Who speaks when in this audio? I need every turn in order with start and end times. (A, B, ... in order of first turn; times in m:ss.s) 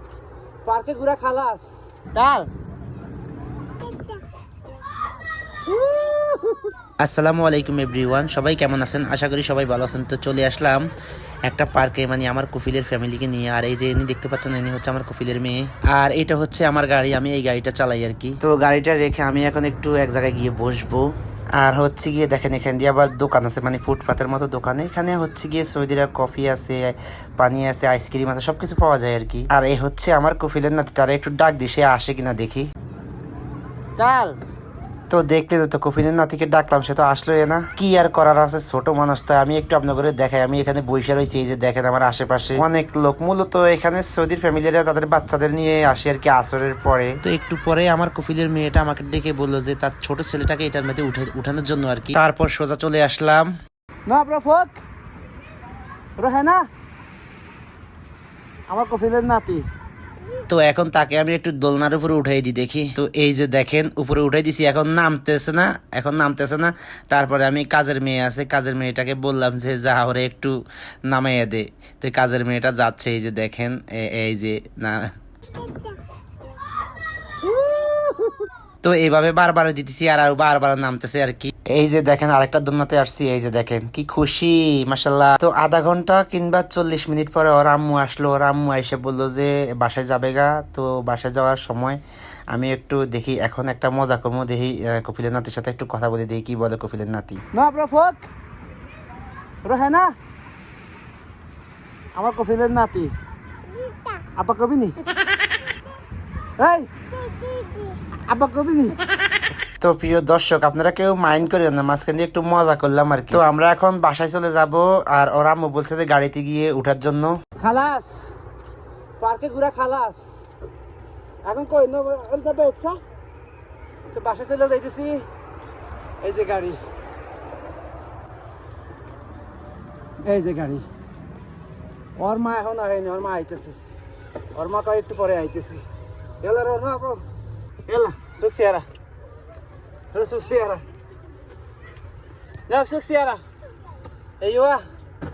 0:00.6-0:02.5 A
0:05.7-0:06.6 A
0:07.0-0:10.9 B
0:11.4-0:32.7 B
0:34.0-0:34.4 A
0:35.1-0:53.5 B
0:54.0-0:54.8 A
0:56.2-0:56.6 A
0:58.7-0:59.6 A
1:00.5-1:10.6 B
1:11.1-1:15.1 B
1:17.4-1:18.4 A
1:18.8-1:32.0 B
1:32.5-1:37.4 B
1:37.5-1:38.3 A
1:39.6-1:40.1 A
1:42.2-1:43.2 A
1:44.3-1:45.0 A
1:46.6-1:46.9 A
1:48.3-1:49.0 A
1:49.8-1:57.3 B
1:57.6-1:58.3 A
1:59.2-2:00.3 A
2:01.4-2:03.0 A
2:04.1-2:05.2 A
2:06.2-2:06.8 A
2:10.2-2:10.9 A
2:12.2-2:13.8 A
2:14.6-2:15.8 A
2:16.4-2:17.2 A
2:17.9-2:18.9 A
2:20.1-2:20.8 A
2:22.7-2:23.4 A
2:24.4-2:24.8 A